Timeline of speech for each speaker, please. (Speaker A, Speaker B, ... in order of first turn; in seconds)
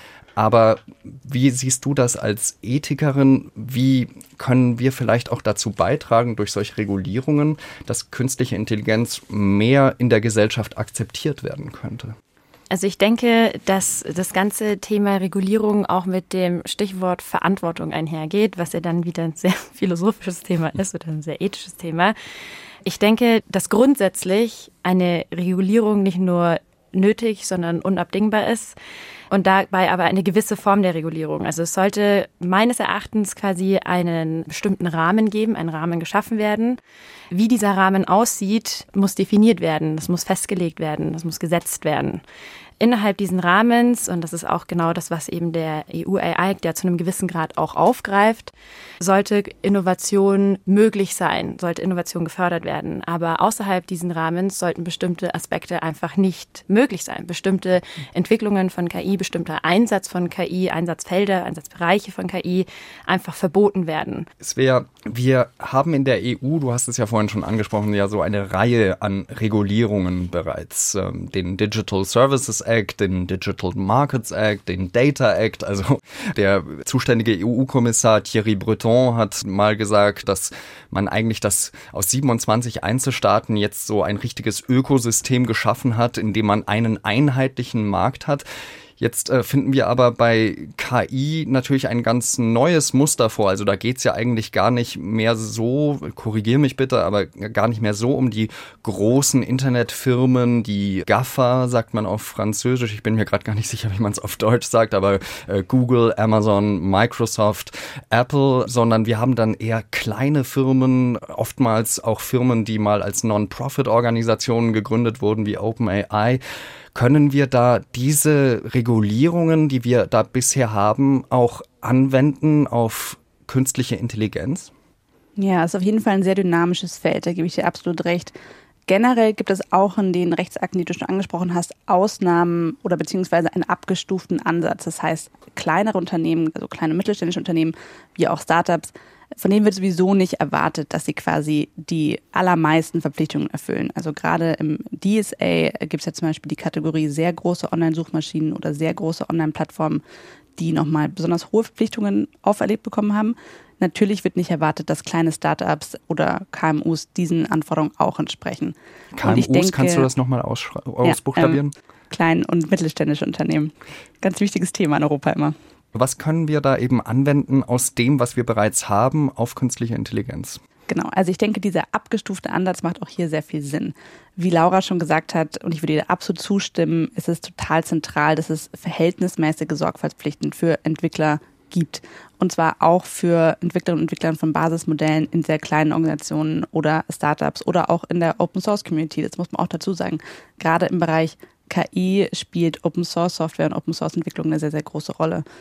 Speaker A: 0.3-12.1, 64.4-88.4, 89.0-116.4, 116.9-124.7, 159.1-161.7, 165.9-170.6
Speaker B: 12.7-22.1, 22.8-28.7, 29.3-36.8, 37.3-42.2, 42.8-64.3
Speaker C: 125.4-128.3, 128.9-150.0, 150.6-160.1, 161.0-161.6, 162.1-165.5, 170.9-195.4